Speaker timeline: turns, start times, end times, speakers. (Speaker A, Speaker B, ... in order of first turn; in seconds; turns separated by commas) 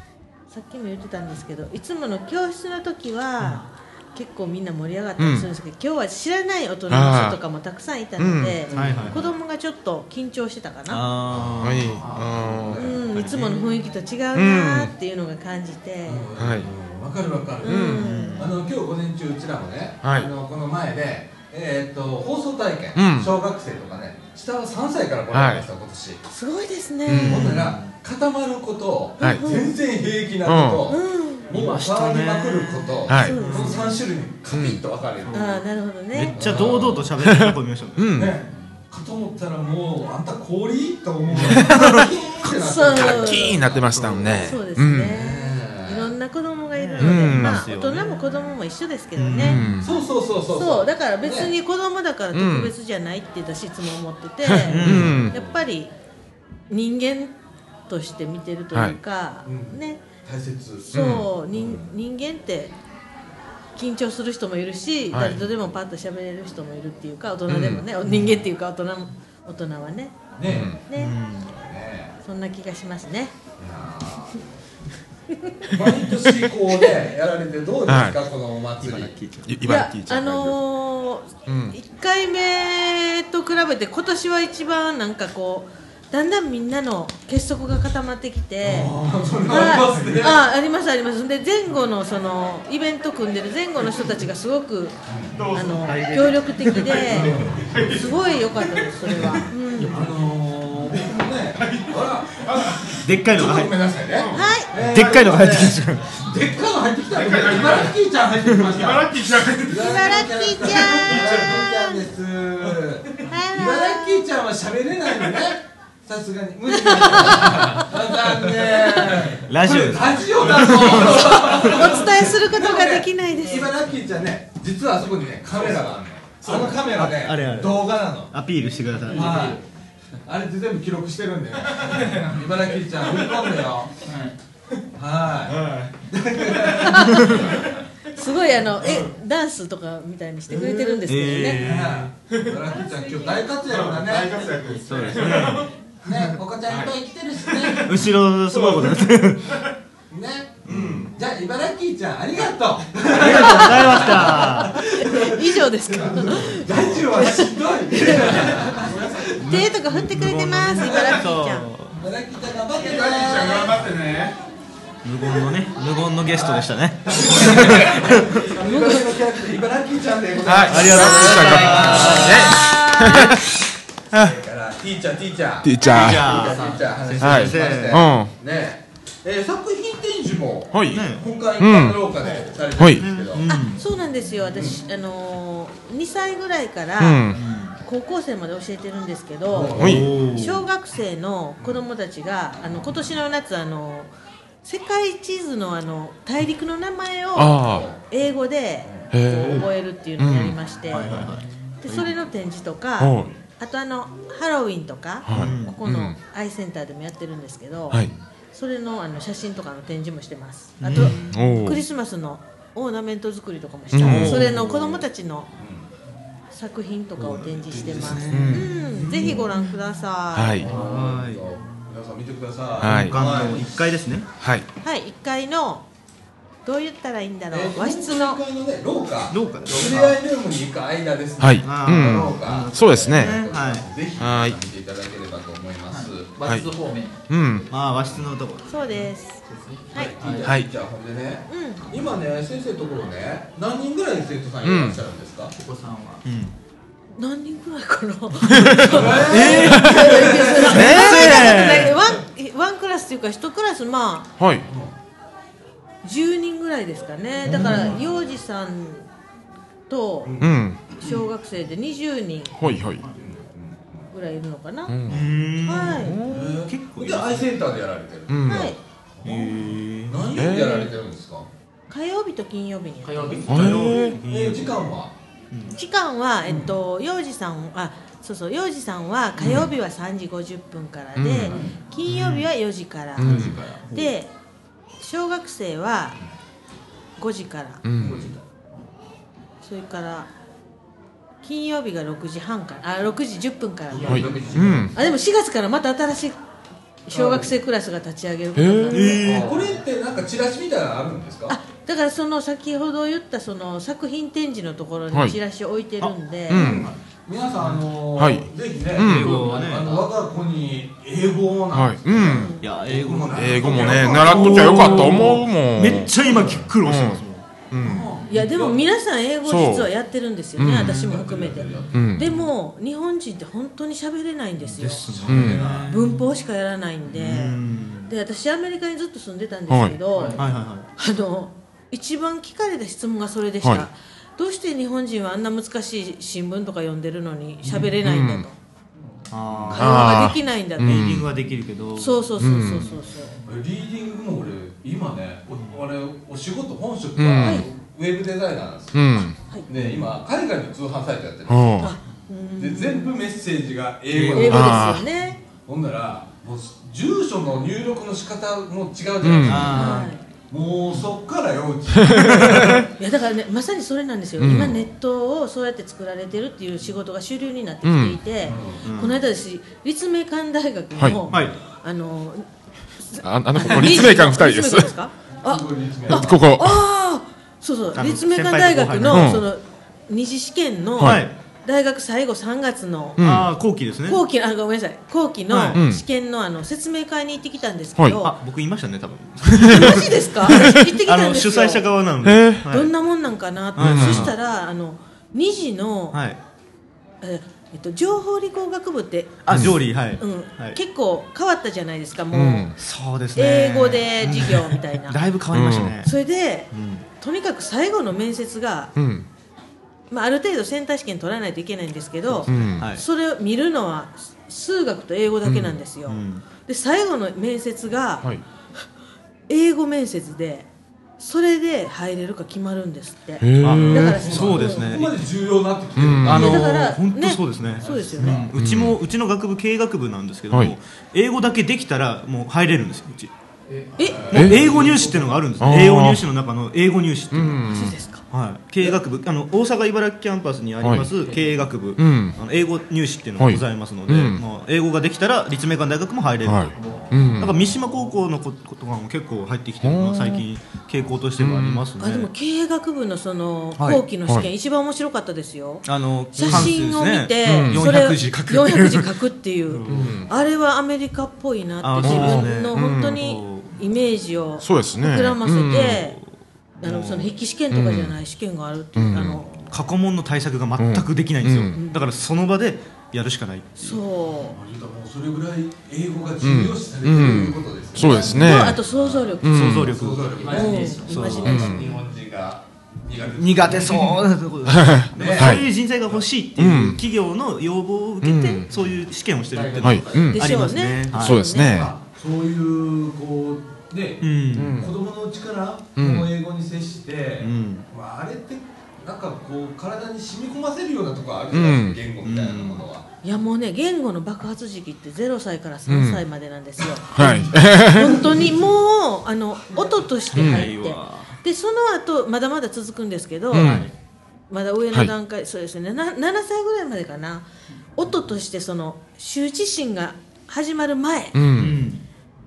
Speaker A: 0.5-11.1, Speaker B: 5.2-5.5, Speaker B: 6.9-7.4, Speaker B: 8.2-8.6, Speaker C: 8.7-9.3, Speaker D: 8.7-9.2, Speaker D: 10.9-13.6, Speaker C: 11.3-13.0, Speaker B: 11.6-12.8, Speaker A: 12.7-16.2, Speaker B: 14.3-14.9, Speaker C: 16.1-26.2, Speaker B: 16.4-16.7, Speaker A: 17.6-18.5, Speaker B: 17.6-18.1, Speaker D: 17.9-18.6, Speaker B: 20.0-20.3, Speaker B: 22.9-23.3, Speaker B: 25.3-25.7, Speaker A: 26.3-27.5, Speaker B: 27.1-27.6, Speaker D: 27.1-27.9, Speaker C: 27.2-35.6, Speaker A: 29.2-29.7, Speaker B: 29.2-29.5, Speaker B: 30.4-30.9, Speaker A: 30.9-31.5, Speaker D: 31.5-34.0, Speaker B: 33.1-33.5, Speaker A: 33.1-34.0, Speaker B: 34.5-34.8, Speaker D: 35.2-38.3, Speaker A: 35.3-36.4, Speaker C: 36.3-37.1, Speaker B: 37.3-38.3, Speaker C: 38.1-44.5, Speaker D: 41.3-41.9, Speaker B: 41.4-42.0, Speaker A: 42.4-43.6, Speaker B: 42.9-45.1, Speaker A: 44.3-49.6, Speaker C: 45.1-46.1, Speaker D: 46.7-48.5, Speaker B: 47.0-47.6, Speaker D: 49.1-49.8, Speaker B: 49.4-50.0, Speaker C: 49.8-51.5, Speaker A: 50.5-55.9, Speaker B: 52.3-52.7, Speaker B: 54.5-55.3, Speaker D: 54.6-55.3, Speaker C: 54.9-55.6, Speaker A: 56.7-57.3, Speaker A: 57.9-60.0, Speaker C: 59.4-61.9, Speaker A: 60.9-62.7, Speaker B: 60.9-61.3, Speaker A: 63.8-70.2, Speaker B: 65.1-65.4, Speaker B: 67.5-67.8, Speaker D: 68.1-68.4, Speaker C: 70.4-70.7, Speaker B: 70.4-70.8, Speaker A: 70.8-71.2, Speaker D: 70.9-71.5, Speaker C: 71.5-72.1, Speaker A: 72.2-73.3, Speaker C: 73.6-74.4, Speaker A: 75.4-75.7, Speaker C: 75.7-79.2, Speaker B: 77.9-78.2, Speaker D: 78.8-79.7, Speaker B: 79.5-80.6, Speaker A: 79.6-88.9, Speaker B: 81.5-81.8, Speaker C: 88.6-90.4, Speaker A: 89.5-95.0, Speaker C: 95.1-95.4, Speaker B: 95.3-96.0, Speaker A: 95.5-100.0, Speaker D: 95.6-97.5, Speaker C: 97.1-98.2, Speaker B: 97.6-97.9, Speaker C: 99.8-128.3, Speaker B: 101.5-103.0, Speaker D: 103.0-103.7, Speaker B: 104.1-104.5, Speaker A: 104.3-104.7, Speaker D: 104.8-106.2, Speaker B: 107.1-107.9, Speaker B: 108.6-110.0, Speaker A: 109.7-112.1, Speaker A: 113.3-114.2, Speaker A: 116.7-117.9, Speaker D: 119.4-121.5, Speaker A: 121.0-123.7, Speaker B: 126.4-126.7, Speaker D: 126.8-129.5, Speaker E: 129.0-129.6, Speaker C: 129.1-129.6, Speaker C: 130.2-133.9, Speaker B: 131.8-132.2, Speaker E: 134.0-134.3, Speaker C: 134.9-137.6, Speaker B: 135.5-135.9, Speaker A: 136.8-137.4, Speaker A: 138.1-141.6, Speaker D: 141.0-142.1, Speaker C: 141.6-144.6, Speaker A: 142.8-143.4, Speaker B: 143.7-145.7, Speaker D: 144.8-145.7, Speaker C: 146.0-148.0, Speaker B: 147.5-147.8, Speaker D: 147.8-149.6, Speaker B: 148.5-149.0, Speaker C: 150.1-159.6, Speaker B: 150.7-151.1, Speaker D: 150.7-151.0, Speaker D: 153.1-154.8, Speaker A: 153.2-158.6, Speaker D: 158.1-158.7, Speaker A: 159.4-161.7, Speaker D: 159.4-161.9, Speaker C: 160.8-161.2, Speaker C: 161.9-164.3, Speaker D: 165.0-168.8, Speaker C: 166.4-172.7, Speaker B: 170.4-173.4, Speaker D: 170.6-173.3, Speaker E: 171.4-172.4, Speaker C: 174.1-183.4, Speaker B: 175.6-176.3, Speaker D: 175.8-178.1, Speaker E: 176.3-176.9, Speaker B: 177.2-178.3, Speaker B: 180.7-181.1, Speaker D: 180.9-181.2, Speaker B: 181.6-182.1, Speaker D: 182.2-183.8, Speaker B: 182.7-183.1, Speaker A: 183.5-194.1, Speaker C: 184.5-184.8, Speaker B: 187.0-187.4, Speaker D: 187.3-187.8, Speaker C: 189.5-190.1, Speaker D: 189.8-190.7, Speaker B: 189.8-190.0, Speaker A: 194.6-201.1, Speaker B: 197.3-197.9, Speaker C: 197.6-198.0, Speaker B: 199.1-199.7, Speaker B: 200.2-200.6, Speaker D: 200.9-202.2, Speaker A: 201.8-215.5, Speaker B: 203.0-203.3, Speaker B: 205.2-206.2, Speaker D: 205.3-205.8, Speaker D: 210.8-211.4, Speaker B: 211.0-211.8, Speaker B: 213.9-214.5, Speaker D: 213.9-215.0, Speaker C: 215.5-215.9, Speaker A: 216.5-220.7, Speaker D: 217.2-219.7, Speaker C: 217.7-218.6, Speaker B: 218.3-218.7, Speaker B: 220.3-220.7, Speaker D: 220.6-221.6, Speaker C: 220.6-223.7, Speaker D: 222.8-224.3, Speaker B: 222.8-223.2, Speaker B: 224.4-224.7, Speaker A: 224.8-225.8, Speaker A: 226.6-228.4, Speaker C: 227.5-236.3, Speaker D: 229.3-230.1, Speaker E: 229.7-230.2, Speaker B: 231.4-233.5, Speaker D: 231.6-233.9, Speaker B: 234.2-234.6, Speaker E: 235.9-237.2, Speaker B: 236.4-236.7, Speaker B: 237.3-237.7, Speaker D: 237.7-238.8, Speaker A: 238.7-240.1, Speaker E: 239.4-240.5, Speaker C: 239.9-245.5, Speaker B: 240.4-240.7, Speaker A: 241.5-241.8, Speaker B: 244.6-245.0, Speaker E: 245.6-246.2, Speaker D: 246.2-246.5, Speaker A: 247.2-254.3, Speaker B: 248.5-248.9, Speaker C: 248.8-251.5, Speaker D: 249.2-252.0, Speaker B: 250.8-251.2, Speaker B: 254.4-254.7, Speaker C: 254.7-254.9, Speaker A: 256.0-259.1, Speaker D: 257.4-258.0, Speaker C: 257.5-258.0, Speaker A: 259.9-262.6, Speaker C: 260.2-260.6, Speaker B: 260.4-260.8, Speaker B: 262.6-263.1, Speaker C: 263.1-264.1, Speaker A: 264.1-265.0, Speaker B: 264.9-265.2, Speaker D: 265.1-267.6, Speaker A: 265.6-266.2, Speaker B: 266.0-266.5, Speaker C: 266.3-271.5, Speaker B: 268.3-268.7, Speaker A: 268.4-268.8, Speaker D: 269.2-270.3, Speaker B: 270.3-270.9, Speaker A: 271.9-273.4, Speaker E: 273.0-273.6, Speaker C: 273.3-275.1, Speaker B: 273.5-274.2, Speaker D: 273.5-274.9, Speaker D: 275.5-275.8, Speaker A: 275.8-284.3, Speaker C: 276.4-276.7, Speaker B: 281.1-282.5, Speaker B: 283.2-283.6, Speaker D: 283.2-284.2, Speaker A: 285.0-286.2, Speaker A: 287.2-287.8, Speaker B: 287.8-288.3, Speaker E: 288.0-288.6, Speaker C: 288.0-288.3, Speaker A: 289.6-290.3, Speaker A: 291.4-296.4, Speaker E: 293.9-294.9, Speaker C: 294.0-294.8, Speaker B: 294.0-294.9, Speaker A: 297.1-299.2, Speaker C: 297.1-297.5, Speaker B: 298.6-299.1, Speaker D: 298.9-299.6, Speaker C: 299.2-301.6, Speaker A: 301.5-306.8, Speaker B: 305.1-305.4, Speaker B: 306.5-306.9, Speaker C: 306.5-315.4, Speaker B: 308.1-309.4, Speaker D: 309.0-310.0, Speaker E: 309.3-310.1, Speaker B: 311.7-312.5, Speaker A: 312.2-312.6, Speaker D: 312.6-317.5, Speaker B: 313.3-316.2, Speaker C: 316.2-316.7, Speaker B: 316.8-318.1, Speaker C: 317.8-318.8, Speaker A: 318.3-330.4, Speaker B: 319.4-319.9, Speaker B: 320.6-321.0, Speaker C: 320.7-322.1, Speaker B: 321.9-322.3, Speaker D: 324.7-326.3, Speaker C: 324.8-325.9, Speaker B: 325.3-325.7, Speaker D: 327.1-328.1, Speaker B: 329.7-330.0, Speaker E: 330.1-330.4, Speaker D: 330.4-330.9, Speaker A: 331.0-338.5, Speaker B: 338.0-338.5, Speaker D: 339.3-340.1, Speaker C: 339.5-339.8, Speaker A: 339.7-341.1, Speaker B: 339.7-341.3, Speaker D: 340.8-342.3, Speaker A: 342.0-343.4, Speaker B: 342.4-342.9, Speaker C: 343.4-351.9, Speaker B: 347.2-347.6, Speaker A: 347.4-347.6, Speaker B: 348.9-349.4, Speaker D: 349.7-350.1, Speaker B: 351.5-351.9, Speaker A: 351.8-353.1, Speaker C: 352.6-362.9, Speaker D: 354.1-354.5, Speaker A: 354.3-355.4, Speaker B: 354.4-355.1, Speaker B: 359.2-359.8, Speaker D: 359.4-360.1, Speaker A: 359.7-360.2, Speaker B: 362.1-362.8, Speaker D: 362.3-362.8, Speaker A: 363.0-372.4, Speaker B: 364.4-364.9, Speaker B: 367.8-368.2, Speaker C: 368.4-368.8, Speaker D: 368.8-369.2, Speaker B: 371.0-371.2, Speaker D: 371.3-371.6, Speaker A: 373.0-383.2, Speaker B: 373.2-374.9, Speaker C: 375.4-376.5, Speaker B: 376.1-376.8, Speaker D: 377.9-379.4, Speaker B: 379.1-379.4, Speaker B: 381.0-381.2, Speaker D: 381.0-381.3, Speaker B: 383.2-383.5, Speaker D: 383.2-384.2, Speaker A: 384.0-388.3, Speaker D: 385.5-385.8, Speaker B: 385.7-386.0, Speaker D: 388.2-392.9, Speaker A: 389.6-391.9, Speaker B: 392.2-392.7, Speaker A: 392.7-396.2, Speaker D: 393.8-394.3, Speaker B: 393.8-394.3, Speaker D: 396.1-396.4, Speaker A: 397.2-402.7, Speaker D: 399.4-400.8, Speaker B: 399.5-399.7, Speaker B: 402.3-402.8, Speaker D: 402.8-406.1, Speaker A: 403.3-405.2, Speaker B: 405.5-406.0, Speaker A: 406.0-406.7, Speaker D: 406.7-407.1, Speaker A: 407.2-408.9, Speaker B: 408.9-409.2, Speaker A: 410.1-418.3, Speaker D: 412.3-413.0, Speaker B: 412.5-412.9, Speaker B: 415.4-415.8, Speaker D: 416.1-416.4, Speaker A: 419.5-420.7, Speaker A: 421.2-424.9, Speaker B: 423.4-424.2, Speaker D: 423.6-425.2, Speaker C: 423.9-426.5, Speaker B: 425.9-426.6, Speaker D: 426.2-433.3, Speaker A: 426.2-428.5, Speaker C: 427.8-428.5, Speaker B: 428.5-428.9, Speaker E: 433.7-435.5, Speaker C: 434.0-435.1, Speaker D: 434.3-437.6, Speaker B: 434.3-434.8, Speaker B: 435.6-436.2, Speaker B: 437.3-437.9, Speaker A: 437.7-438.2, Speaker D: 438.3-446.7, Speaker B: 440.8-441.1, Speaker E: 441.2-441.6, Speaker B: 442.0-442.4, Speaker B: 443.4-444.4, Speaker B: 446.4-447.5, Speaker E: 446.8-447.2, Speaker C: 446.8-447.4, Speaker D: 447.4-452.3, Speaker B: 449.8-450.4, Speaker B: 451.4-451.8, Speaker A: 452.0-466.1, Speaker D: 455.8-459.1, Speaker B: 457.4-457.9, Speaker D: 459.7-460.2, Speaker B: 459.9-460.3, Speaker D: 461.8-463.7, Speaker B: 462.0-463.2, Speaker B: 464.6-466.0, Speaker D: 465.8-466.2, Speaker D: 466.8-467.3, Speaker A: 466.8-469.7, Speaker B: 467.7-468.1, Speaker B: 468.9-469.4, Speaker D: 469.7-474.0, Speaker B: 470.8-471.8, Speaker A: 471.7-472.0, Speaker A: 473.8-474.6, Speaker C: 474.5-484.3, Speaker B: 476.4-478.8, Speaker A: 478.1-479.5, Speaker B: 479.4-479.9, Speaker D: 479.5-480.4, Speaker E: 480.4-481.5, Speaker A: 480.5-481.8, Speaker D: 481.0-481.7, Speaker B: 481.5-481.9, Speaker D: 483.3-491.5, Speaker B: 484.6-485.7, Speaker C: 485.1-486.3, Speaker B: 486.5-487.0, Speaker B: 488.2-488.7, Speaker A: 488.3-488.6, Speaker E: 489.5-490.4, Speaker B: 489.8-490.4, Speaker A: 490.3-491.9, Speaker B: 491.1-491.9, Speaker C: 491.7-503.1, Speaker D: 494.2-494.9, Speaker B: 494.5-494.9, Speaker B: 495.9-496.3, Speaker D: 497.4-497.9, Speaker B: 501.5-502.0, Speaker D: 502.2-502.9, Speaker A: 503.2-513.9, Speaker B: 505.9-506.2, Speaker B: 507.1-508.2, Speaker C: 507.2-507.6, Speaker C: 508.1-508.7, Speaker D: 510.3-511.4, Speaker B: 510.4-510.6, Speaker B: 513.5-513.9, Speaker D: 513.6-513.9, Speaker A: 514.5-521.4, Speaker B: 521.3-521.8, Speaker D: 521.5-522.0